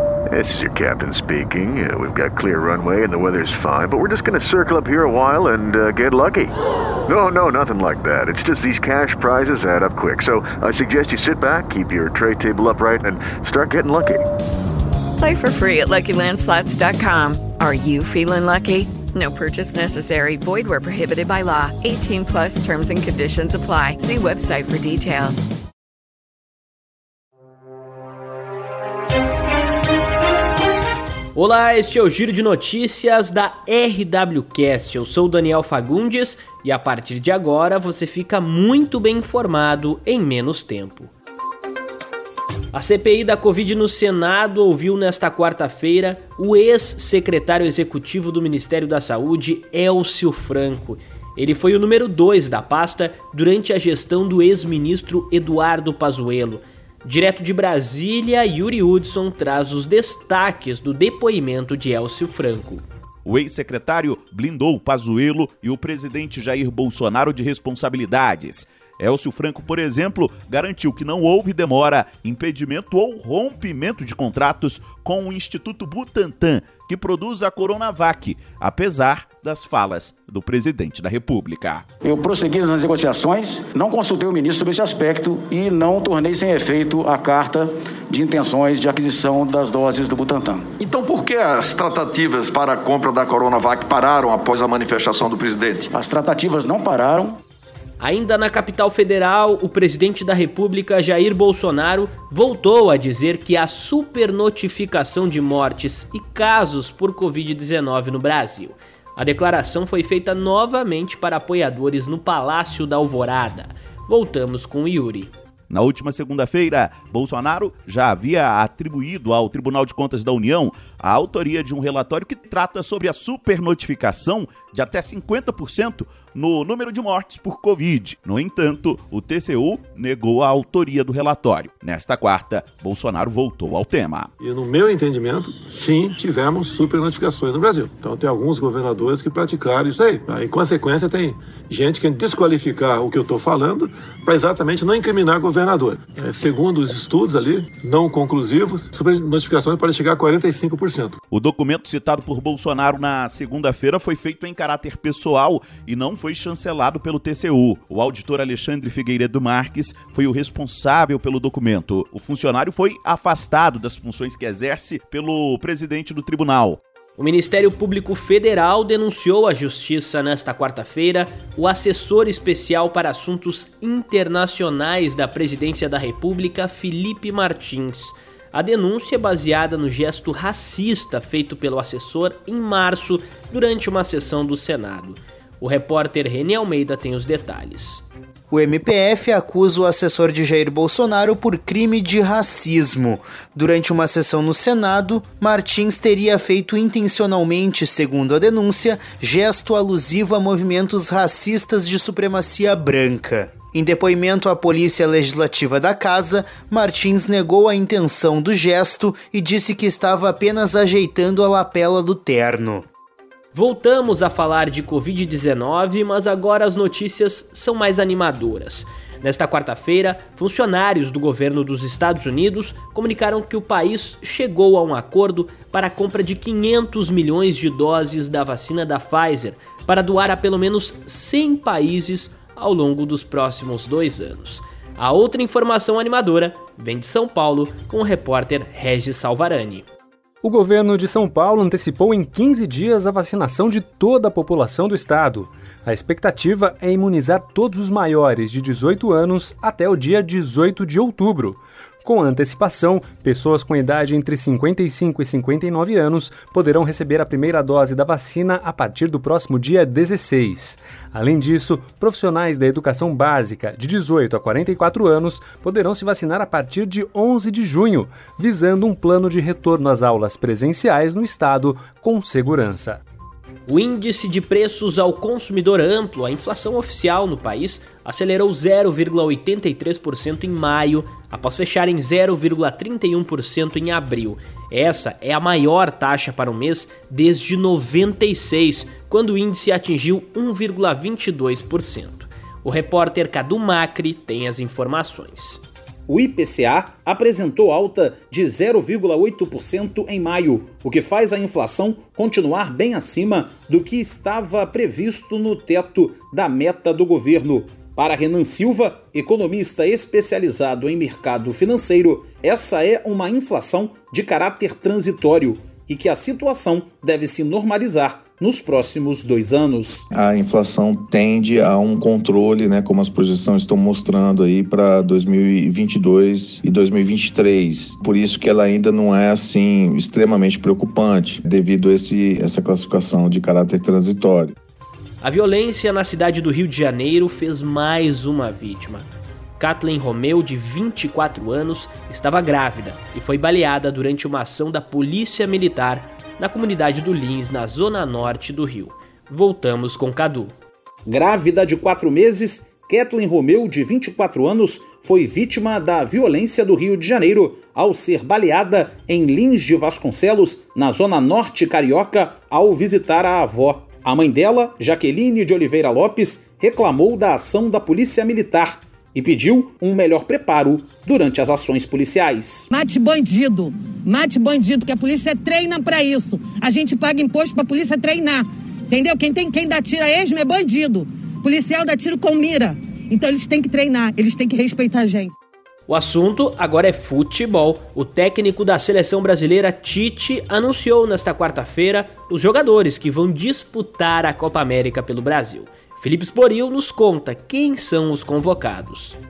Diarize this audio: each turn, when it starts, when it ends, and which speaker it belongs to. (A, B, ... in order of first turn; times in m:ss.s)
0:00.3-0:06.5 A
0:07.1-0:14.2 A
0:15.2-0:25.5 B
0:31.3-0:41.1 C
0:42.7-1:02.8 C
1:03.2-1:21.8 D
1:22.0-1:30.7 E
1:30.8-1:35.8 F
1:35.9-1:37.4 E
1:38.0-1:55.3 C
1:55.7-2:14.3 D
2:14.4-2:31.2 G
2:31.3-2:46.8 D
2:47.2-3:08.0 C
3:08.5-3:32.9 H
3:33.5-3:59.9 C
4:00.4-4:33.0 I
4:33.7-4:55.6 C
4:56.1-5:20.1 J
5:20.1-5:34.6 K
5:35.2-5:50.5 C
5:51.1-6:12.7 J
6:12.7-6:25.3 L
6:25.9-6:39.2 C